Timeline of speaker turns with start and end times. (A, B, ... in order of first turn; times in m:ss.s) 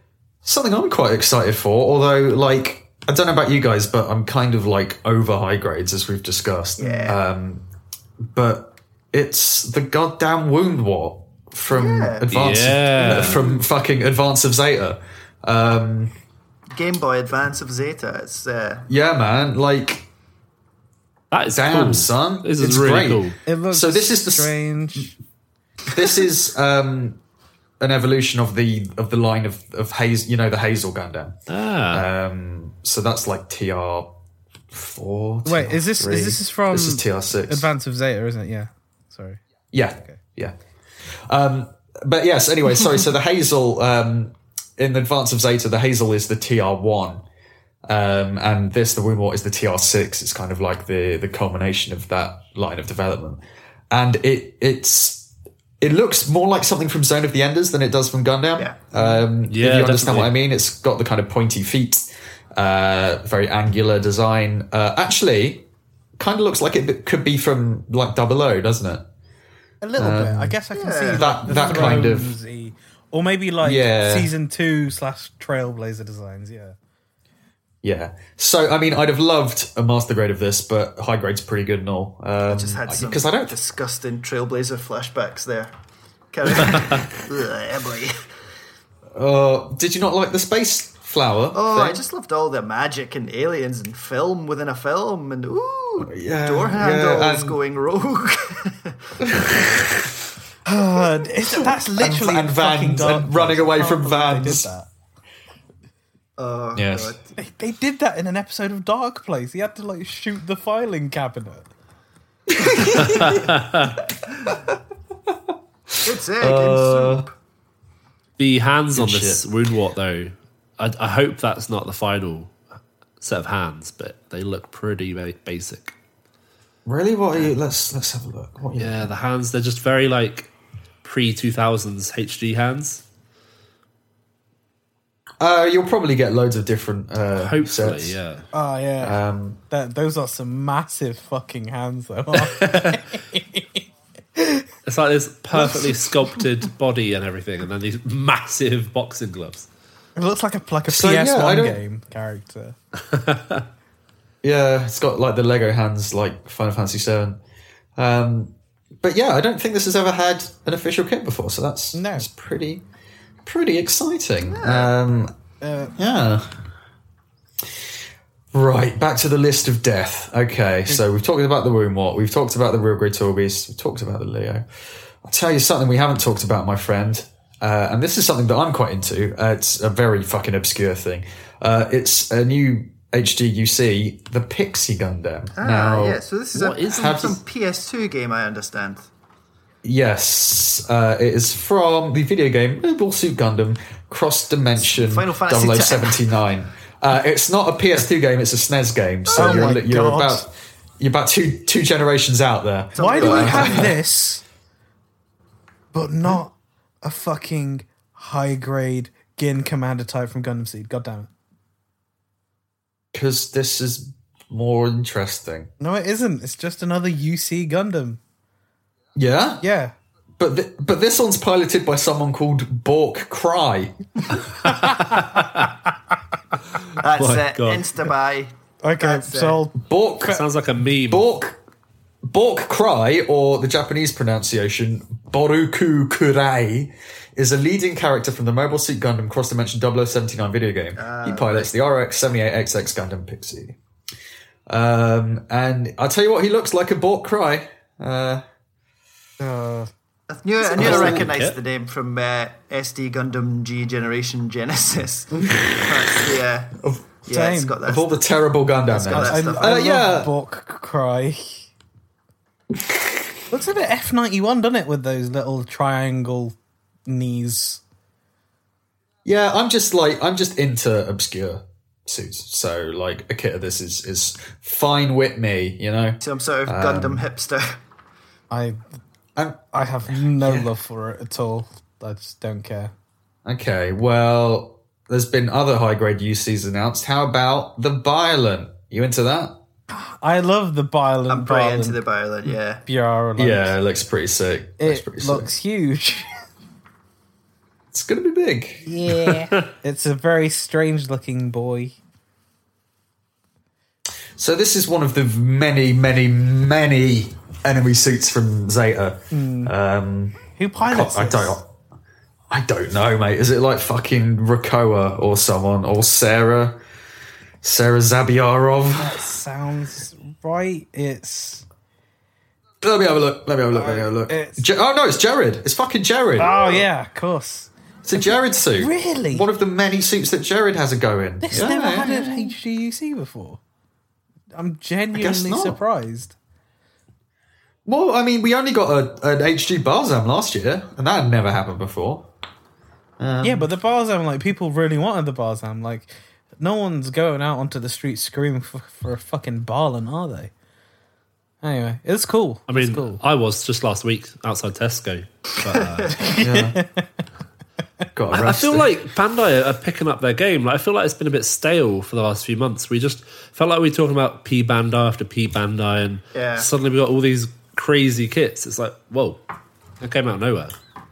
0:00.4-0:07.6 A
0:06.8-0:07.2 B
0:08.3-0:16.1 A
0:11.7-0:12.3 B
0:12.3-0:13.5 C
0:13.0-0:13.6 B
0:16.7-0:18.9 B
0:18.9-0:20.1 A
0:21.3-0:23.4 C
0:21.5-0:24.6 A
0:23.4-0:25.1 D
0:25.9-0:27.2 A
0:27.8-0:31.4 A
0:31.5-0:32.0 C
0:31.9-0:34.1 A
0:34.7-0:37.7 A
0:35.4-0:39.4 D
0:39.7-0:40.5 A
0:41.3-0:47.2 A
0:47.8-0:53.4 A
0:53.9-0:55.3 A
0:55.8-1:05.6 A
0:59.5-1:00.3 C
1:06.2-1:09.0 A
1:09.8-1:16.8 D
1:10.0-1:12.3 A
1:10.7-1:12.1 B
1:13.6-1:14.3 A
1:17.8-1:23.5 A
1:22.5-1:25.7 B
1:26.3-1:28.2 B
1:29.1-1:32.0 A
1:31.5-1:39.9 B
1:36.0-1:37.6 A
1:39.2-1:40.1 A
1:40.6-1:44.9 D
1:42.0-1:44.7 A
1:46.4-1:47.2 B
1:46.7-1:47.2 A
1:47.4-1:51.7 D
1:52.5-1:53.5 A
1:53.2-1:53.9 C
1:55.9-1:57.3 A
1:56.0-1:57.3 B
1:58.4-2:02.5 C
1:58.9-1:59.4 A
2:03.2-2:05.9 C
2:06.8-2:09.1 A
2:08.8-2:10.5 C
2:11.0-2:13.0 C
2:15.4-2:18.2 A
2:17.4-2:18.4 C
2:18.5-2:23.8 D
2:19.0-2:19.6 A
2:22.5-2:23.0 C
2:24.4-2:24.6 D
2:24.8-2:29.7 C
2:30.2-2:32.8 D
2:30.9-2:31.8 A
2:33.1-2:33.6 C
2:34.4-2:37.4 A
2:38.0-2:42.8 A
2:41.9-2:42.3 D
2:43.4-2:45.3 A
2:44.4-2:44.9 B
2:45.6-2:45.9 D
2:46.0-2:46.6 A
2:48.5-2:54.6 A
2:55.2-3:06.2 A
3:05.6-3:09.1 B
3:06.5-3:07.4 C
3:06.9-3:07.4 A
3:09.8-3:24.0 A
3:14.8-3:16.2 B
3:19.3-3:19.7 B
3:19.3-3:20.4 D
3:22.9-3:23.9 B
3:23.0-3:24.4 D
3:25.9-3:31.3 D
3:33.1-3:35.7 A
3:35.8-3:38.2 D
3:39.1-3:39.6 A
3:39.6-3:39.9 D
3:40.4-3:43.9 A
3:44.6-3:45.7 D
3:44.8-3:45.7 C
3:47.0-3:49.6 B
3:47.0-3:48.0 C
3:48.8-3:50.4 D
3:49.7-3:50.4 A
3:50.2-3:51.2 C
3:51.1-3:51.6 A
3:52.2-4:03.8 A
4:01.0-4:01.7 B
4:04.7-4:08.4 A
4:09.4-4:09.9 D
4:10.3-4:18.2 B
4:10.8-4:11.3 A
4:10.8-4:11.6 C
4:15.3-4:16.2 A
4:16.8-4:17.1 A
4:17.3-4:17.8 D
4:17.8-4:20.3 A
4:18.9-4:19.8 B
4:19.0-4:21.7 D
4:23.5-4:26.6 D
4:27.1-4:27.8 D
4:29.2-4:37.3 A
4:36.2-4:37.8 B
4:38.5-4:38.8 D
4:39.4-4:40.7 A
4:39.7-4:42.9 D
4:43.4-4:49.6 A
4:49.9-4:52.0 D
4:51.3-4:52.8 B
4:52.8-4:53.8 D
4:53.4-4:55.5 A
4:54.8-4:56.3 D
4:57.9-4:58.9 A
4:58.8-5:02.0 D
5:04.4-5:11.7 A
5:09.3-5:09.7 D
5:10.6-5:11.6 D
5:12.5-5:16.8 A
5:17.6-5:19.2 A
5:19.0-5:21.6 D
5:22.8-5:26.9 A
5:23.7-5:24.6 D
5:26.4-5:29.5 D
5:28.0-5:32.5 A
5:31.4-5:33.6 D
5:34.5-5:36.3 D
5:35.1-5:35.8 A
5:37.8-5:42.3 A
5:43.2-5:43.7 A
5:43.4-5:50.5 D
5:51.6-5:53.2 D
5:52.7-5:56.2 C
5:55.6-5:56.1 B
5:56.2-5:57.1 D
5:56.4-5:56.8 A
5:58.1-5:58.9 A
5:58.3-6:09.4 C
6:06.3-6:06.7 B
6:10.0-6:10.7 C